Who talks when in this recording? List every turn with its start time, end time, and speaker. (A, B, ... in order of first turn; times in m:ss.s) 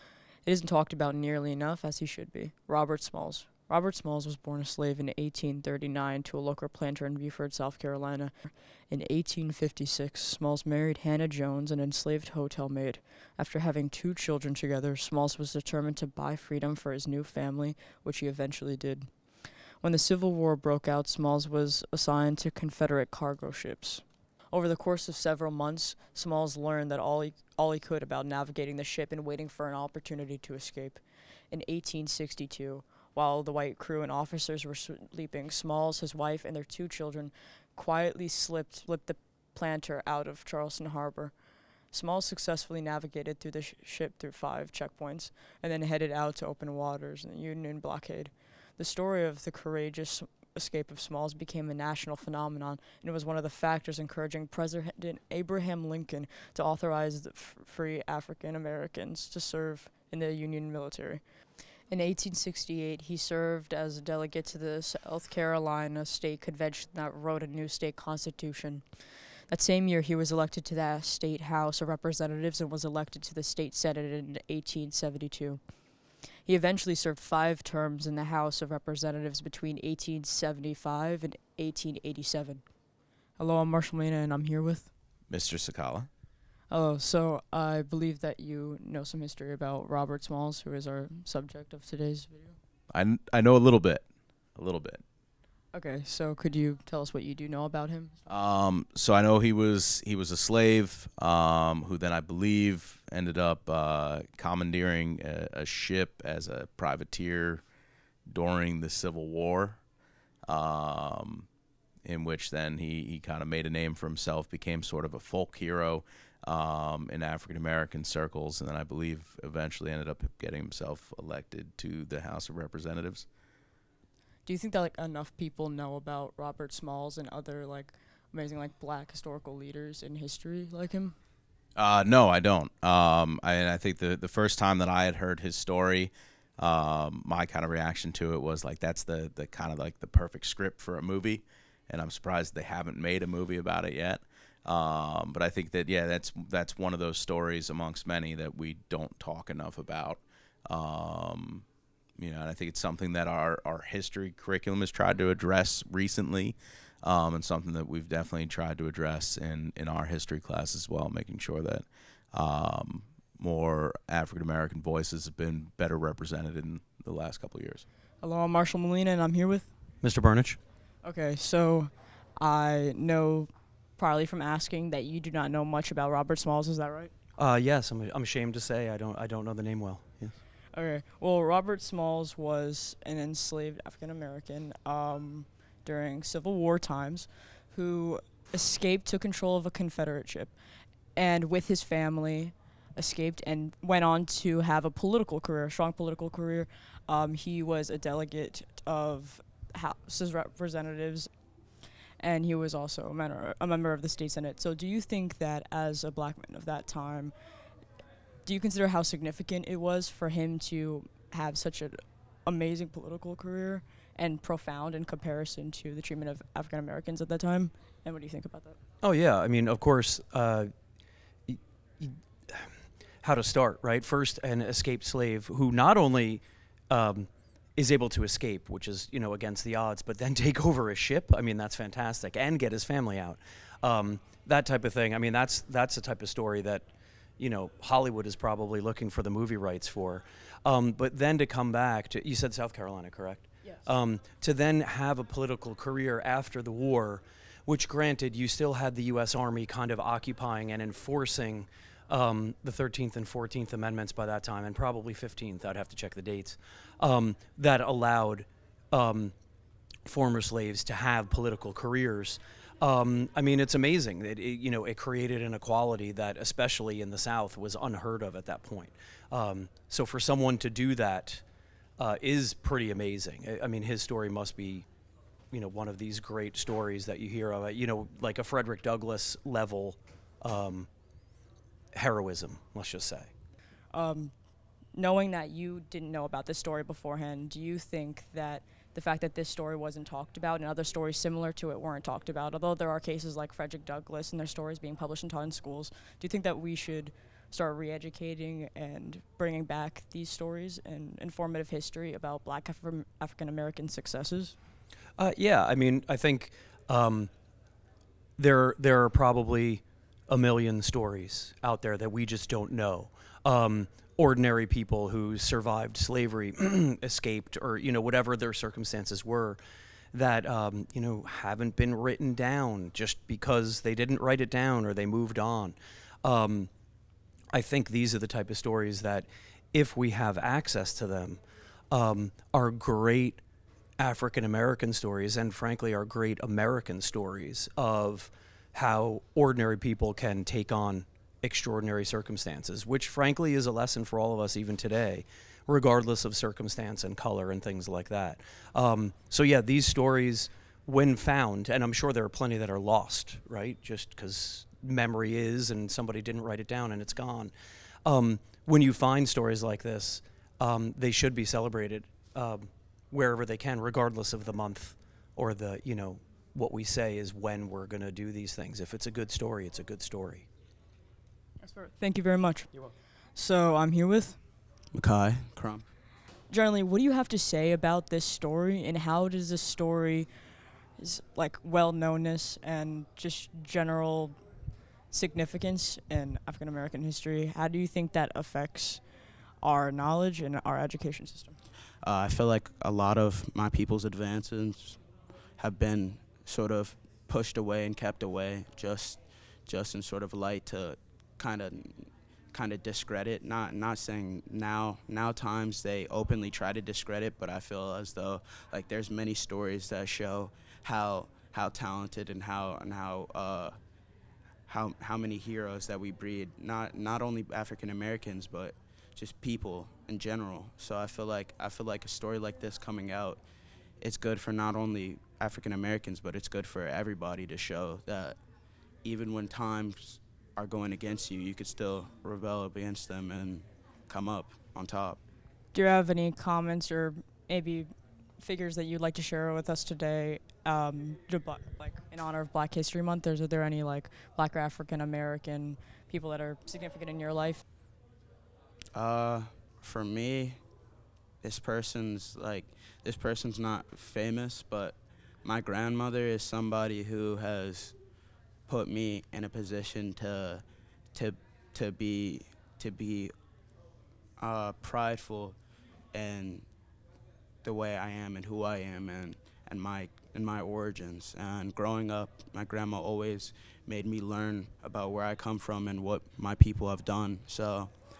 0:00.4-0:19.1 A
0:19.8-0:41.3 A
0:41.9-1:01.2 A
1:01.9-1:15.6 A
1:16.4-1:22.6 A
1:23.4-1:24.9 A
1:25.3-1:26.1 B
1:26.7-1:32.6 A
1:32.9-1:35.0 B
1:35.7-1:38.2 A
1:38.3-1:47.6 B
1:48.3-1:49.8 B
1:50.5-1:51.5 B
1:52.0-2:03.3 B
2:04.5-2:11.2 A
2:11.8-2:31.6 B
2:32.2-2:47.8 B
2:48.2-2:49.7 A
2:50.0-2:50.6 C
2:51.0-2:57.1 A
2:57.4-3:00.4 C
3:00.7-3:10.5 A
3:11.2-3:21.3 A
3:22.2-3:27.3 A
3:28.4-3:38.8 A
3:39.0-3:40.7 C
3:41.5-3:56.9 C
3:57.4-4:19.3 C
4:20.1-4:31.4 C
4:32.0-4:34.9 C
4:35.5-4:40.9 C
4:41.9-4:43.3 C
4:43.9-4:44.3 A
4:44.9-5:04.6 A
5:05.2-5:07.3 C
5:08.4-5:19.6 C
5:20.1-5:26.7 C
5:27.5-5:31.4 C
5:31.9-5:33.4 C
5:34.0-5:57.5 C
5:58.0-6:10.5 C
6:11.6-6:12.7 A
6:13.4-6:14.4 A
6:14.9-6:15.9 D
6:16.5-6:20.3 A
6:21.0-6:24.4 A
6:25.1-6:29.0 A
6:29.6-6:31.6 A
6:32.0-6:35.0 D
6:35.6-6:53.8 D
6:54.7-7:03.4 D
7:04.0-7:08.4 D
7:09.0-7:15.2 D
7:15.7-7:27.6 A
7:28.9-7:30.6 D
7:31.4-7:38.0 D
7:38.7-7:43.3 D
7:44.4-7:45.6 D
7:46.1-7:46.7 D
7:47.6-7:57.9 D